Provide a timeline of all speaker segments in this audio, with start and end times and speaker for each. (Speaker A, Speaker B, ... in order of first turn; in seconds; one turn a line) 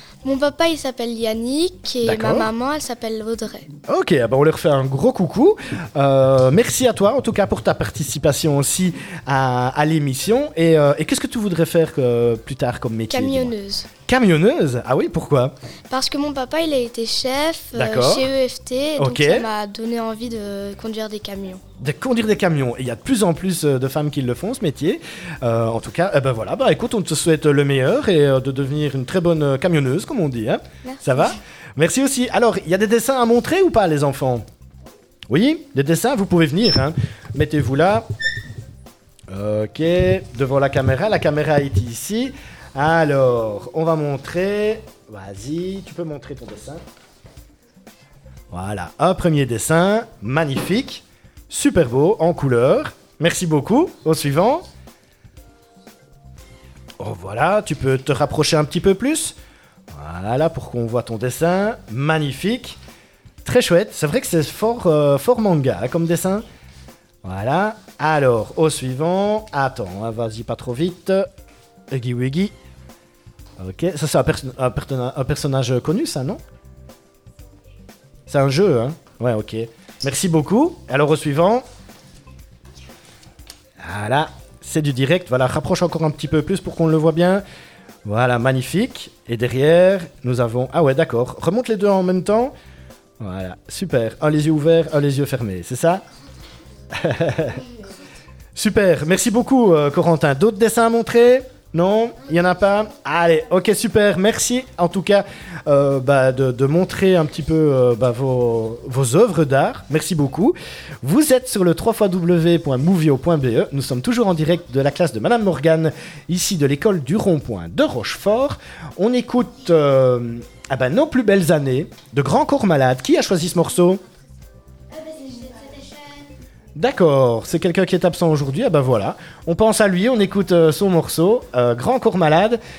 Speaker A: 0.2-3.7
Speaker B: 2.0-2.5
Speaker B: 3.9-13.5
Speaker A: 13.1-13.9
Speaker B: 14.1-15.5
Speaker A: 15.9-21.6
Speaker B: 17.7-18.3
Speaker B: 19.0-19.5
Speaker B: 21.8-34.5
Speaker A: 30.9-31.4
Speaker B: 35.3-38.1
Speaker B: 39.3-46.8
Speaker B: 48.5-54.7
Speaker B: 57.0-59.4
Speaker B: 59.9-62.8
Speaker B: 63.5-66.5
Speaker B: 67.2-71.3
Speaker B: 71.9-72.5
Speaker B: 73.6-76.4
Speaker B: 78.3-81.6
Speaker B: 83.8-87.4
Speaker B: 88.0-92.5
Speaker B: 93.2-96.0
Speaker B: 96.9-97.6
Speaker B: 98.5-124.0
Speaker B: 126.8-132.6